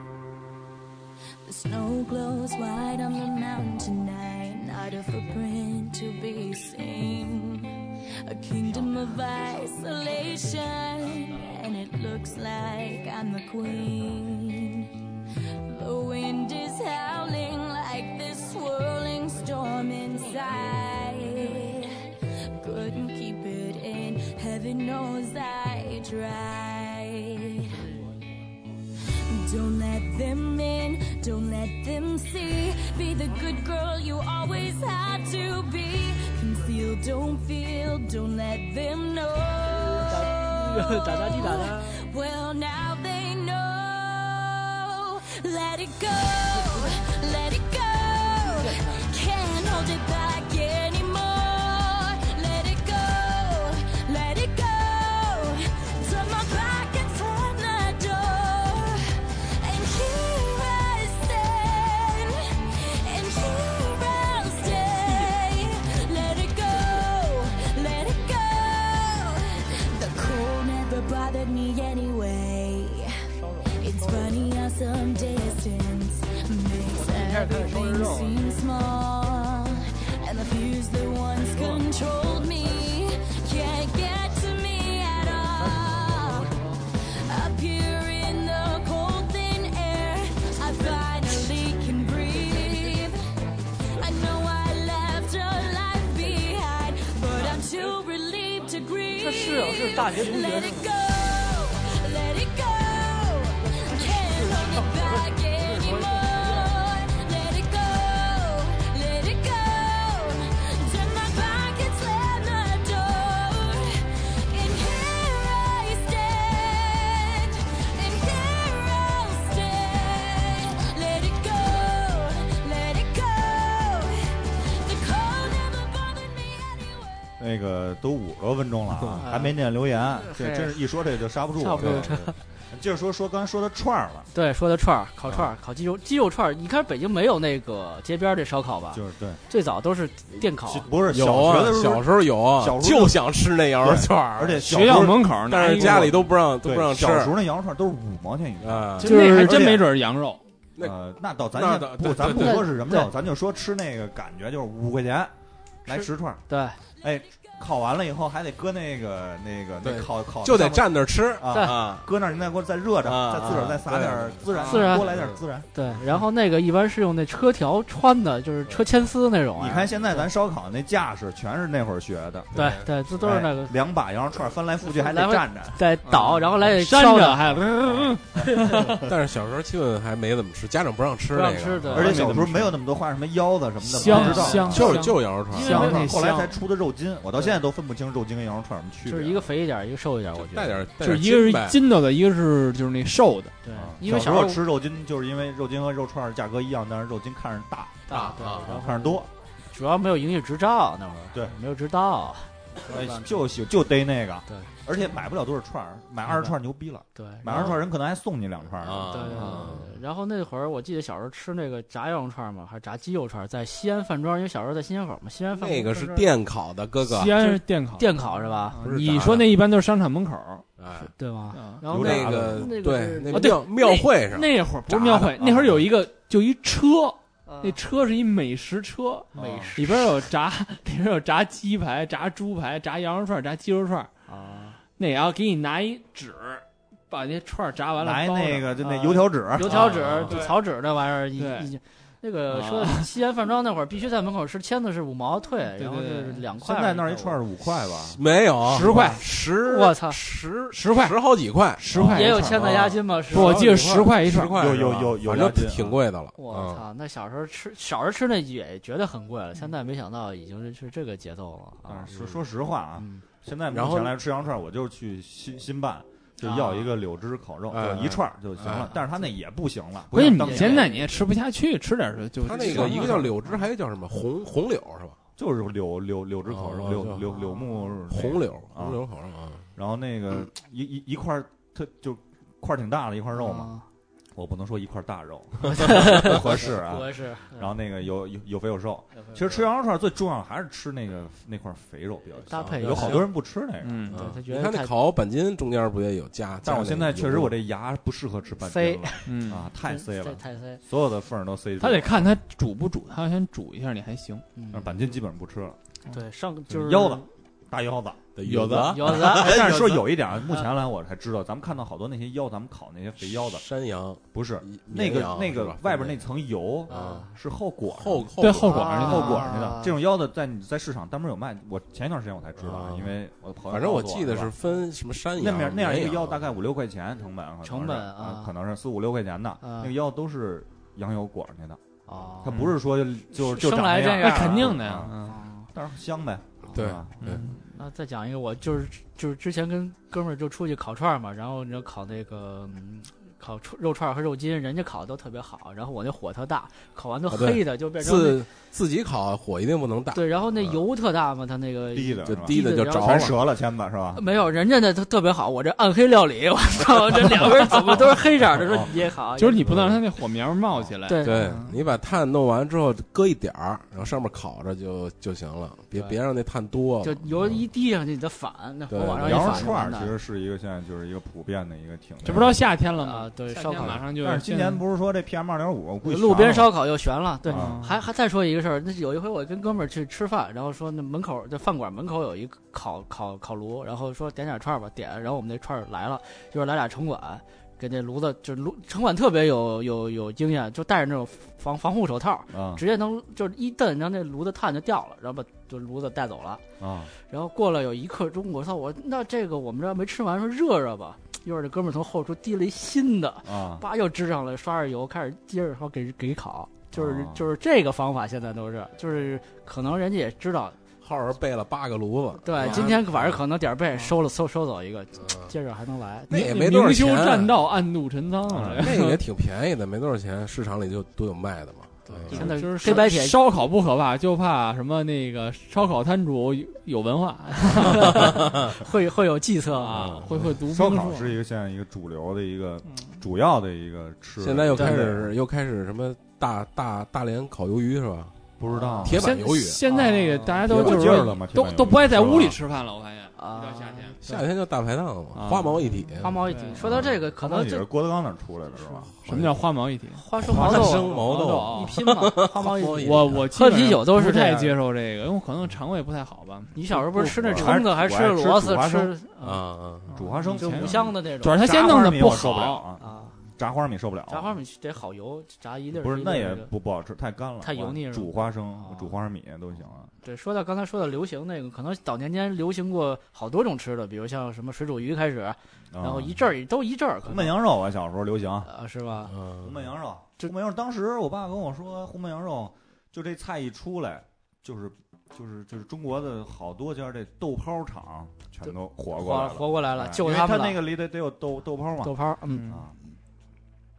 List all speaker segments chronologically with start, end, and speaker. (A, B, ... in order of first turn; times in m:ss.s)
0:01.4-0:15.1 A
0:15.7-0:27.9 A
0:29.1-1:33.2 A
0:40.0-0:42.0 B
1:04.7-1:05.4 B
1:13.3-1:14.5 B
1:16.9-1:18.4 B
1:25.6-1:26.8 B
1:33.9-2:07.1 A
1:39.2-1:40.9 B
1:44.3-1:46.7 B
2:07.4-2:14.3 C
2:09.2-2:10.8 B
2:11.6-2:12.4 B
2:11.8-2:12.2 D
2:14.3-2:20.9 B
2:18.9-2:19.4 C
2:20.6-2:23.2 C
2:21.1-2:27.4 D
2:23.8-2:29.9 C
2:24.6-2:26.3 E
2:28.6-2:29.2 D
2:29.0-2:29.7 B
2:29.0-2:30.4 E
2:30.8-2:35.3 C
2:31.5-2:32.7 D
2:32.2-2:33.1 B
2:35.8-2:36.4 C
2:35.9-2:36.8 B
2:37.0-2:45.7 C
2:39.8-2:42.1 D
2:41.5-2:41.8 B
2:43.0-2:45.4 D
2:44.6-2:45.1 B
2:45.7-2:50.3 B
2:49.6-2:52.5 C
2:52.5-2:52.9 D
2:52.5-2:53.8 B
2:53.1-2:55.8 C
2:54.8-2:57.5 B
2:56.1-2:59.0 E
2:58.0-2:59.1 C
2:58.5-2:58.9 B
2:59.0-3:02.3 D
3:01.3-3:02.7 B
3:01.9-3:09.5 C
3:02.0-3:02.4 E
3:03.9-3:06.5 E
3:04.0-3:04.9 B
3:04.1-3:06.0 D
3:05.6-3:06.0 B
3:09.1-3:10.9 B
3:10.4-3:11.8 D
3:11.0-3:13.5 E
3:13.6-3:14.6 B
3:13.7-3:19.3 C
3:18.1-3:23.5 B
3:18.1-3:18.7 D
3:22.8-3:29.6 C
3:26.2-3:26.6 B
3:27.1-3:27.8 B
3:28.8-3:29.9 D
3:29.1-3:36.3 B
3:29.3-3:29.7 E
3:35.6-3:37.4 D
3:37.0-3:40.7 E
3:37.4-3:38.8 B
3:38.8-3:39.6 D
3:40.8-3:41.1 D
3:41.0-3:43.6 B
3:41.5-3:41.8 E
3:41.9-3:42.7 C
3:41.9-3:44.5 D
3:43.3-3:54.1 E
3:44.9-3:45.8 C
3:47.5-3:47.8 B
3:49.3-3:49.8 C
3:49.4-3:50.0 B
3:54.3-3:54.8 B
3:55.0-3:58.8 E
3:58.0-4:00.0 C
3:58.8-4:07.4 B
3:59.6-4:00.5 E
4:01.4-4:01.7 E
4:02.5-4:03.1 E
4:05.8-4:06.4 E
4:06.6-4:08.2 C
4:08.1-4:11.8 D
4:08.6-4:09.5 E
4:08.8-4:09.2 C
4:09.6-4:10.2 B
4:10.7-4:11.2 E
4:11.8-4:12.6 E
4:11.9-4:12.9 C
4:12.1-4:14.1 B
4:12.4-4:16.8 D
4:13.3-4:14.6 E
4:14.4-4:16.0 C
4:16.4-4:22.1 B
4:21.9-4:31.0 C
4:23.0-4:23.2 B
4:23.7-4:24.2 D
4:26.4-4:26.9 B
4:27.7-4:29.0 D
4:30.1-4:33.3 E
4:30.2-4:31.0 B
4:32.4-4:35.2 D
4:32.6-4:33.4 C
4:32.8-4:33.1 B
4:35.4-4:39.0 C
4:36.5-4:37.3 D
4:37.5-4:37.8 B
4:38.1-4:39.6 D
4:39.8-4:43.7 C
4:43.4-4:43.8 B
4:44.4-4:54.1 C
4:45.8-4:47.8 B
4:49.1-4:49.6 B
4:52.5-4:53.3 B
4:52.6-4:53.2 D
4:53.8-4:54.2 E
4:54.1-4:57.6 D
4:54.1-4:54.9 B
4:56.6-5:02.4 C
4:58.6-4:59.3 B
4:59.3-4:59.7 E
4:59.8-5:00.8 B
5:01.8-5:04.4 E
5:04.6-5:05.0 B
5:04.7-5:05.8 C
5:06.1-5:07.3 B
5:06.7-5:08.3 C
5:08.4-5:10.0 D
5:08.4-5:09.1 E
5:08.8-5:09.8 B
5:09.1-5:13.6 C
5:13.3-5:16.2 D
5:14.3-5:24.5 C
5:16.9-5:17.4 B
5:16.9-5:17.3 D
5:18.0-5:19.0 D
5:18.4-5:19.5 E
5:18.6-5:20.0 B
5:22.6-5:23.2 D
5:23.7-5:26.4 D
5:25.4-5:31.8 C
5:27.6-5:28.5 B
5:29.6-5:29.9 B
5:32.1-5:32.7 B
5:32.4-5:35.2 C
5:33.3-5:35.7 B
5:34.1-5:35.4 E
5:35.7-5:37.1 C
5:36.7-5:37.4 D
5:37.2-5:37.6 E
5:37.6-5:48.4 B
5:47.3-5:50.8 D
5:50.1-5:53.4 B
5:51.9-5:54.2 C
5:52.2-5:53.4 D
5:54.1-5:59.7 B
5:58.5-5:58.9 C
5:59.4-6:01.7 E
5:59.6-6:00.0 D
6:01.0-6:01.6 B
6:01.2-6:07.6 D
6:05.9-6:06.2 B
6:07.0-6:10.1 B
6:08.9-6:09.8 D
6:09.2-6:12.7 C
6:12.2-6:14.8 E
6:13.0-6:14.0 B
6:14.0-6:16.7 C
6:16.0-6:36.6 B
6:17.5-6:17.9 C
6:17.5-6:18.0 E
6:32.5-6:32.8 C
6:36.8-6:37.1 C
6:37.2-6:50.8 B
6:43.4-6:43.8 C
6:46.9-6:47.4 C
6:51.0-6:53.4 D
6:52.4-6:56.4 B
6:52.6-6:52.9 E
6:55.2-6:55.5 D
6:56.3-6:57.6 D
6:56.3-6:59.2 E
6:58.5-6:58.9 C
6:58.6-7:02.5 D
7:02.1-7:03.4 B
7:02.3-7:08.4 E
7:07.8-7:10.1 B
7:09.7-7:11.4 E
7:09.9-7:10.3 D
7:10.4-7:15.3 C
7:14.4-7:18.4 D
7:14.8-7:15.0 B
7:18.6-7:19.4 C
7:18.7-7:19.1 B
7:19.0-7:19.8 D
7:19.1-7:24.2 E
7:19.9-7:20.7 B
7:20.6-7:22.6 C
7:20.7-7:21.3 D
7:23.4-7:24.5 B
7:24.2-7:27.1 D
7:25.3-7:26.7 E
7:26.2-7:27.9 B
7:26.8-7:29.1 C
7:29.2-7:32.0 E
7:29.3-7:29.6 D
7:30.2-7:34.8 B
7:30.4-7:33.5 D
7:33.0-7:36.8 E
7:36.7-7:39.6 B
7:36.9-7:39.1 C
7:39.4-7:40.1 D
7:40.1-7:42.8 E
7:40.1-7:44.6 C
7:40.6-7:41.6 B
7:43.0-7:43.4 B
7:44.3-7:46.7 B
7:45.9-7:50.1 C
7:47.6-7:49.2 B
7:50.2-7:57.6 B
7:55.9-7:56.4 C
7:57.2-7:58.7 C
7:58.7-7:59.4 B
7:59.4-7:59.7 D
7:59.6-8:12.1 C
8:08.6-8:10.9 B
8:12.0-8:12.7 B
8:12.5-8:12.9 E
8:12.7-8:13.0 C